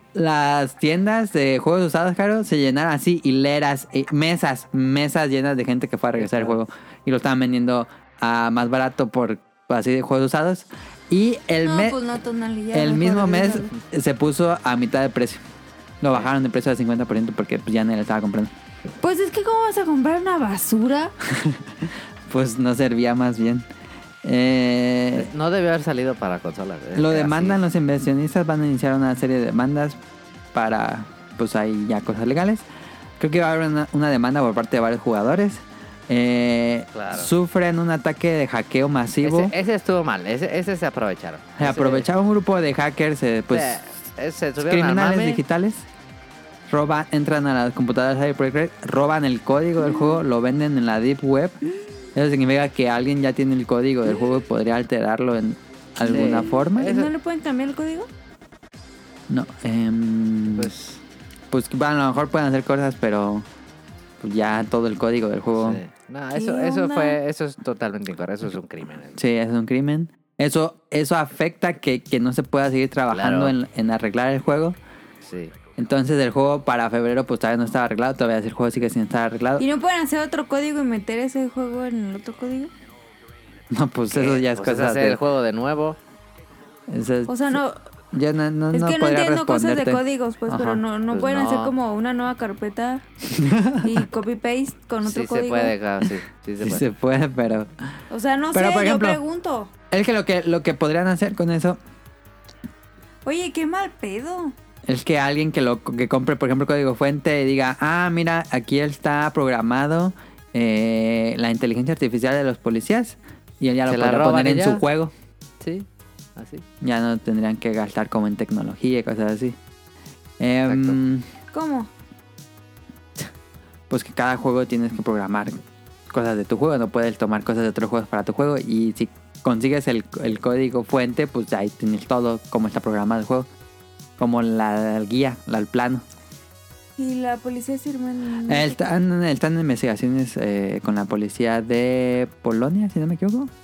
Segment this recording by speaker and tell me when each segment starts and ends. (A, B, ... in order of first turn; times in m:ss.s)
0:00.1-0:12.0 A
0:06.2-0:06.6 B
0:11.6-0:13.7 C
0:12.7-0:15.4 A
0:16.0-0:18.5 A
0:19.0-0:21.1 C
0:21.3-0:23.7 A
0:24.2-0:25.3 A
0:25.2-0:27.6 B
0:27.0-0:30.0 A
0:30.5-0:32.7 A
0:33.2-0:39.5 A
0:36.9-0:37.3 B
0:39.2-0:42.1 B
0:41.6-0:43.8 A
0:43.5-0:45.4 B
0:44.6-0:45.9 A
0:46.7-0:51.6 A
0:52.2-0:57.0 A
0:56.0-0:57.1 B
0:56.1-0:58.1 C
0:59.3-1:00.7 A
1:00.6-1:01.0 B
1:01.5-1:03.5 A
1:04.2-1:05.8 A
1:05.6-1:09.2 B
1:06.4-1:07.2 C
1:09.2-1:14.8 A
1:13.1-1:13.5 B
1:15.2-1:15.5 B
1:15.8-1:19.6 A
1:19.6-1:22.7 C
1:23.7-1:25.2 A
1:24.1-1:26.0 B
1:26.9-1:27.4 A
1:27.3-1:27.8 C
1:28.1-1:30.8 A
1:28.7-1:33.0 C
1:31.1-1:31.7 B
1:33.3-1:33.9 A
1:33.8-1:35.7 C
1:35.0-1:36.8 B
1:36.6-1:37.7 A
1:38.1-1:39.7 C
1:38.5-1:39.2 A
1:39.9-1:41.8 A
1:43.2-1:44.5 C
1:44.9-1:55.1 A
1:53.9-1:54.8 B
1:55.6-1:55.9 B
1:56.4-1:56.6 B
1:56.8-1:59.6 A
2:00.4-2:01.3 A
2:00.7-2:01.0 B
2:01.5-2:01.9 C
2:03.9-2:05.6 A
2:06.1-2:13.5 A
2:14.2-2:16.0 A
2:17.0-2:18.8 C
2:18.5-2:23.5 A